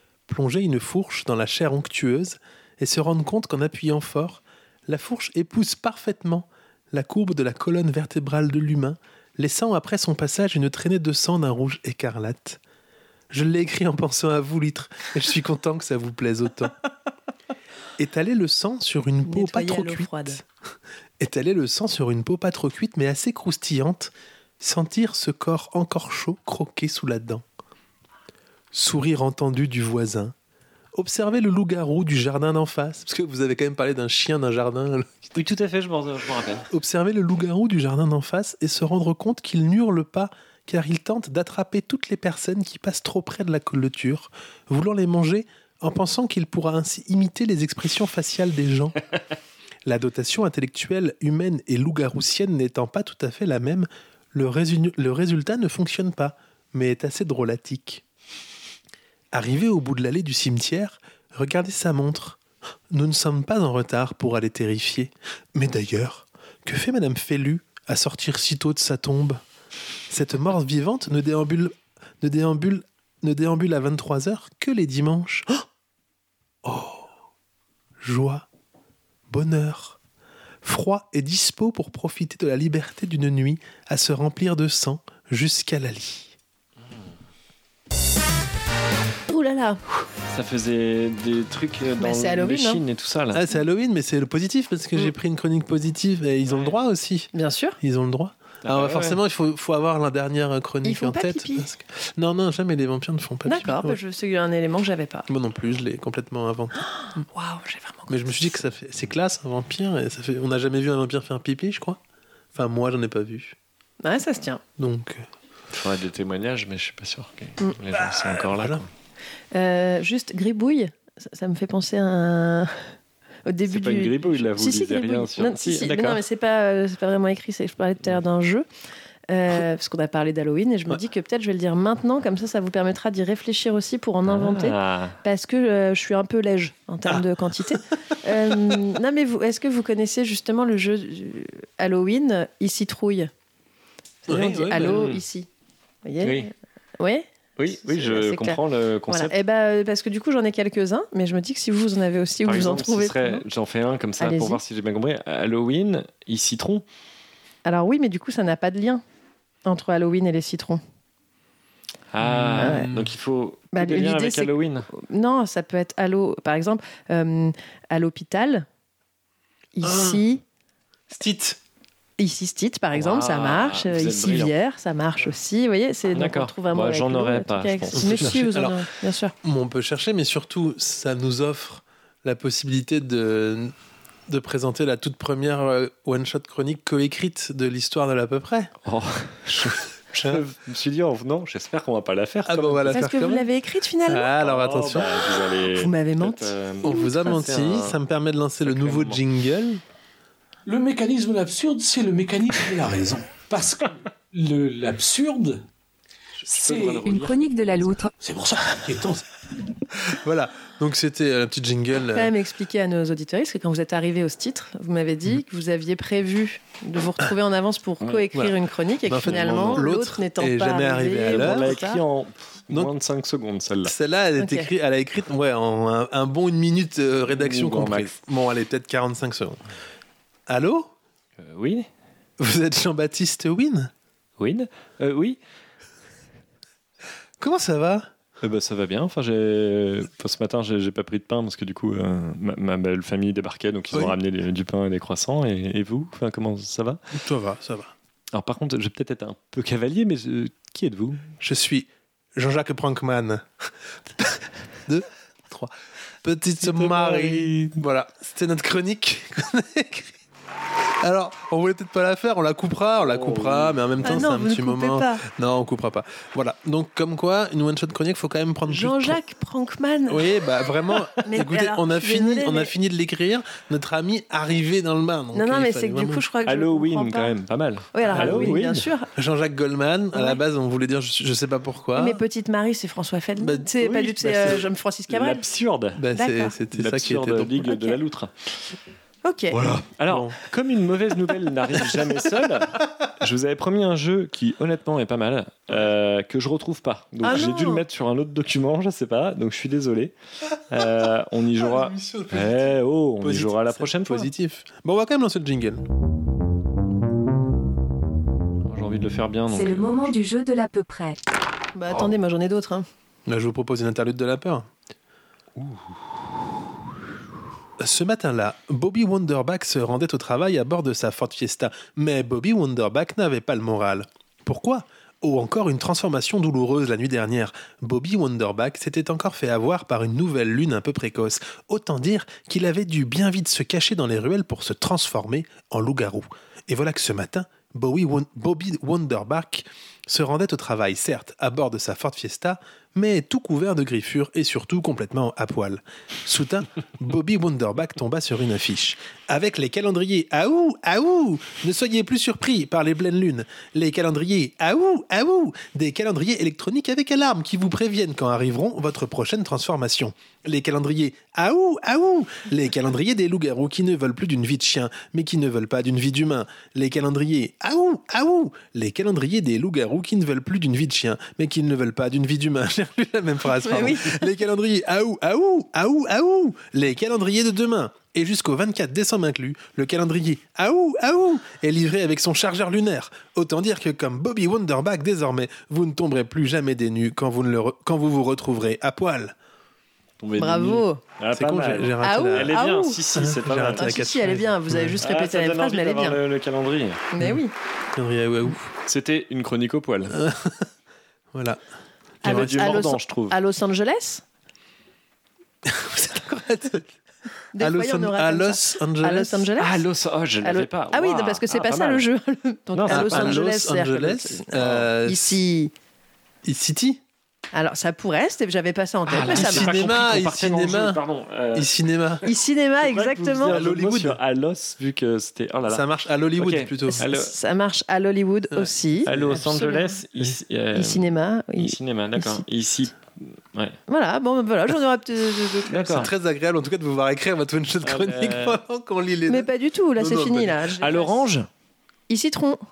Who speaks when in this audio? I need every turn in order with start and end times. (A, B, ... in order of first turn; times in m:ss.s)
0:00.3-0:12.6 A
0:13.3-0:16.7 A
0:18.0-0:20.4 A
0:19.2-0:20.4 B
0:21.2-0:27.4 A
0:28.7-0:30.3 A
0:31.0-0:35.3 A
0:35.4-0:36.7 C
0:36.7-0:49.0 A
0:49.9-0:58.0 A
0:59.3-1:02.4 A
1:02.9-1:09.4 A
1:10.1-1:15.6 A
1:16.6-1:17.1 A
1:18.0-1:18.5 A
1:19.3-1:20.0 A
1:20.6-1:26.4 A
1:29.3-1:29.8 B
1:30.3-1:33.4 C
1:32.0-1:32.8 B
1:33.3-1:44.0 A
1:36.4-1:36.8 C
1:37.3-1:37.8 B
1:38.6-1:39.2 C
1:40.8-1:41.7 B
1:43.5-1:45.3 B
1:45.3-1:46.8 A
1:46.8-1:48.4 B
1:48.1-1:52.0 A
1:52.6-1:53.6 A
1:54.0-1:54.6 B
1:54.8-1:55.2 A
1:55.7-1:58.9 C
1:57.9-1:58.8 A
1:59.5-2:02.8 B
2:03.5-2:08.7 B
2:03.7-2:06.2 C
2:09.3-2:23.3 B
2:14.2-2:15.2 C
2:17.1-2:17.8 A
2:18.5-2:18.8 A
2:24.3-2:25.2 A
2:24.3-2:25.5 B
2:24.8-2:25.2 C
2:26.0-2:27.3 B
2:26.2-2:26.5 C
2:27.6-2:29.3 C
2:27.8-2:33.4 B
2:32.4-2:36.8 C
2:34.2-2:34.6 B
2:37.6-2:39.0 B
2:39.6-2:40.8 B
2:42.1-2:44.9 C
2:42.3-2:43.1 A
2:42.6-2:42.9 B
2:43.7-2:48.7 B
2:49.8-2:50.4 B
2:49.8-2:50.2 A
2:51.1-2:51.6 A
2:52.2-2:59.3 B
2:52.9-2:54.5 C
2:56.1-2:58.4 C
2:57.9-2:58.8 A
2:59.4-3:03.7 A
3:04.3-3:08.7 A
3:08.8-3:13.0 C
3:10.2-3:10.4 A
3:12.4-3:13.5 A
3:12.9-3:14.3 B
3:14.1-3:15.4 A
3:14.4-3:18.0 C
3:15.7-3:17.4 B
3:16.8-3:19.8 A
3:18.6-3:19.2 C
3:20.7-3:25.6 D
3:26.4-3:27.4 C
3:26.5-3:27.1 D
3:27.0-3:28.1 E
3:28.2-3:29.2 D
3:30.2-3:32.3 A
3:32.1-3:42.0 B
3:38.0-3:38.3 C
3:38.3-3:41.8 A
3:39.2-3:39.8 C
3:41.3-3:43.9 C
3:43.8-3:49.6 A
3:44.4-3:44.7 B
3:47.3-3:48.1 C
3:50.5-3:50.9 A
3:51.4-3:51.9 C
3:52.4-3:53.9 A
3:54.4-3:55.4 C
3:57.4-3:58.1 A
3:58.4-4:07.0 C
4:03.9-4:04.2 A
4:07.1-4:07.9 A
4:08.3-4:11.3 C
4:11.4-4:13.4 A
4:14.2-4:15.7 A
4:16.2-4:20.1 A
4:16.6-4:17.7 C
4:21.0-4:29.2 A
4:23.0-4:24.1 C
4:24.0-4:25.2 B
4:28.7-4:30.3 B
4:30.1-4:36.2 A
4:31.2-4:32.7 B
4:35.3-4:37.4 B
4:36.4-4:38.9 C
4:37.9-4:39.1 B
4:38.0-4:38.6 A
4:39.2-4:42.2 A
4:40.1-4:40.4 B
4:42.0-4:45.4 B
4:43.4-4:44.6 A
4:45.1-4:46.0 C
4:46.0-4:47.7 A
4:46.1-4:46.6 B
4:46.7-4:48.3 C
4:47.6-4:48.0 B
4:49.2-4:49.6 B
4:49.5-5:00.1 C
4:49.6-4:50.4 A
4:57.2-4:57.8 B
5:00.7-5:04.3 C
5:01.6-5:05.8 A
5:08.6-5:10.0 C
5:09.5-5:11.2 E
5:11.8-5:12.9 B
5:13.3-5:14.7 A
5:15.6-5:15.9 C
5:17.8-6:29.4 A
6:13.6-6:14.2 B
6:30.2-6:34.0 C
6:30.4-6:31.0 B
6:31.3-6:32.6 A
6:32.0-6:33.0 B
6:33.2-6:35.0 A
6:33.7-6:36.2 B
6:35.0-6:37.0 C
6:37.2-6:37.5 B
6:38.0-6:38.7 A
6:38.8-6:40.1 C
6:40.1-6:40.6 A
6:41.3-6:41.6 A
6:42.2-6:43.4 C
6:42.2-6:44.2 B
6:42.2-6:42.7 A
6:45.6-6:46.9 A
6:47.6-6:49.8 B
6:47.6-6:49.6 A
6:49.6-6:52.0 C
6:50.4-6:55.7 B
6:52.7-6:53.4 C
6:52.9-6:55.4 A
6:54.6-6:54.9 C
6:56.4-6:57.0 A
6:57.5-6:59.8 B
6:59.1-7:01.7 C
6:59.1-7:01.0 A
7:01.5-7:02.3 A
7:02.2-7:03.6 B
7:02.8-7:05.8 C
7:03.5-7:04.2 A
7:05.7-7:07.1 A
7:06.4-7:07.3 C
7:06.9-7:10.0 B
7:08.5-7:09.2 A
7:09.1-7:13.8 C
7:10.7-7:12.4 B
7:13.9-7:16.0 B
7:15.7-7:16.1 C
7:15.8-7:20.6 A
7:17.8-7:18.6 C
7:19.3-7:21.3 B
7:20.8-7:21.5 C
7:22.1-7:22.6 B